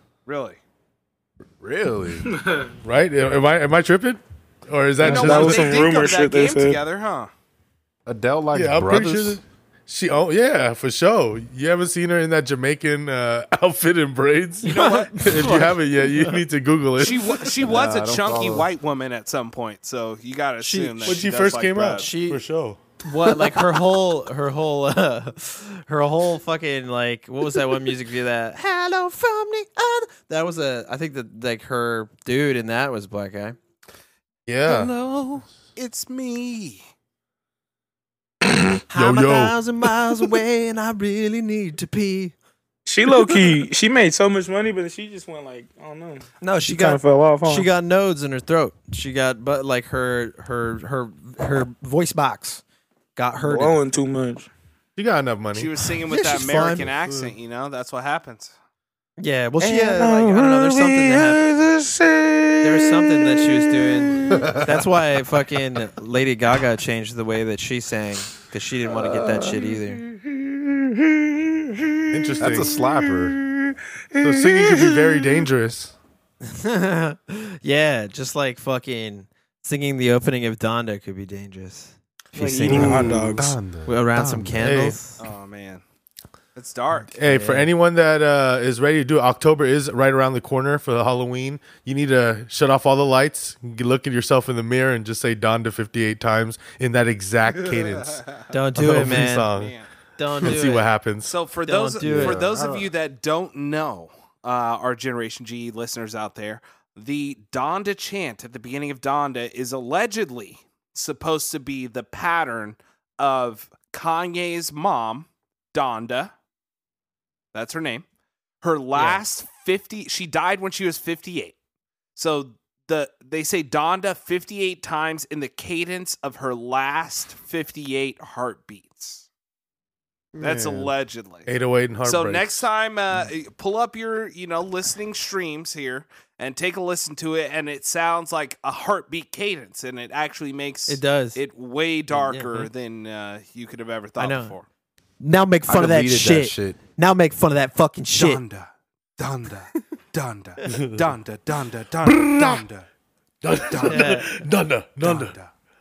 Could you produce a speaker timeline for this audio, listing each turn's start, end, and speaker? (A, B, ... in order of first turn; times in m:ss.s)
0:00.2-0:00.6 A
0:01.6-0:02.3 B
0:02.3-0:02.7 C
0:02.8-0:05.8 D
0:05.0-0:07.3 A
0:05.0-0:06.8 C
0:08.0-0:09.4 B
0:08.5-0:17.4 D
0:14.6-0:15.6 A
0:14.6-0:16.4 E
0:17.0-0:22.1 A
0:17.6-0:18.7 B
0:20.6-0:21.2 E
0:21.0-0:22.8 D
0:21.9-0:22.4 E
0:23.0-0:33.6 E
0:34.5-0:34.9 D
0:34.7-0:35.4 E
0:35.8-0:36.8 A
0:38.9-0:42.3 E
0:38.9-0:39.6 D
0:42.8-0:47.7 C
0:46.4-0:52.6 E
0:53.2-0:53.8 E
0:53.4-0:54.5 C
0:55.0-0:55.7 D
0:55.5-0:58.5 A
0:56.1-0:56.9 E
0:57.0-0:57.3 D
0:59.2-1:01.4 E
0:59.6-1:03.9 C
1:02.6-1:10.0 E
1:04.3-1:04.8 B
1:09.0-1:09.2 B
1:10.0-1:12.1 C
1:12.1-1:12.7 D
1:12.4-1:13.4 B
1:13.3-1:15.4 C
1:14.2-1:15.9 D
1:16.4-1:23.2 E
1:22.3-1:23.6 C
1:22.6-1:24.8 B
1:22.8-1:23.3 D
1:23.8-1:25.2 E
1:24.6-1:25.0 D
1:25.2-1:25.8 A
1:26.6-1:27.2 A
1:27.1-1:38.2 D
1:27.2-1:27.7 E
1:37.5-1:38.4 A
1:38.5-1:39.5 E
1:38.8-1:39.8 D
1:39.5-1:39.9 A
1:40.2-1:40.9 E
1:40.4-1:41.3 D
1:41.2-1:56.3 A
1:41.6-1:42.4 E
1:42.0-1:42.9 B
1:57.5-1:58.0 A
1:58.6-2:01.6 A
1:58.9-1:59.2 E
2:02.2-2:09.2 A
2:10.3-2:10.9 B
2:10.4-2:11.5 A
2:11.5-2:12.7 D
2:12.0-2:24.6 A
2:20.9-2:21.4 E
2:22.1-2:22.7 E
2:24.2-2:24.5 E
2:25.2-2:28.4 E
2:25.6-2:26.8 B
2:28.1-2:32.8 A
2:30.7-2:31.1 D
2:32.0-2:32.6 D
2:33.4-2:35.4 D
2:33.6-2:34.3 A
2:33.8-2:34.3 E
2:35.0-2:35.5 A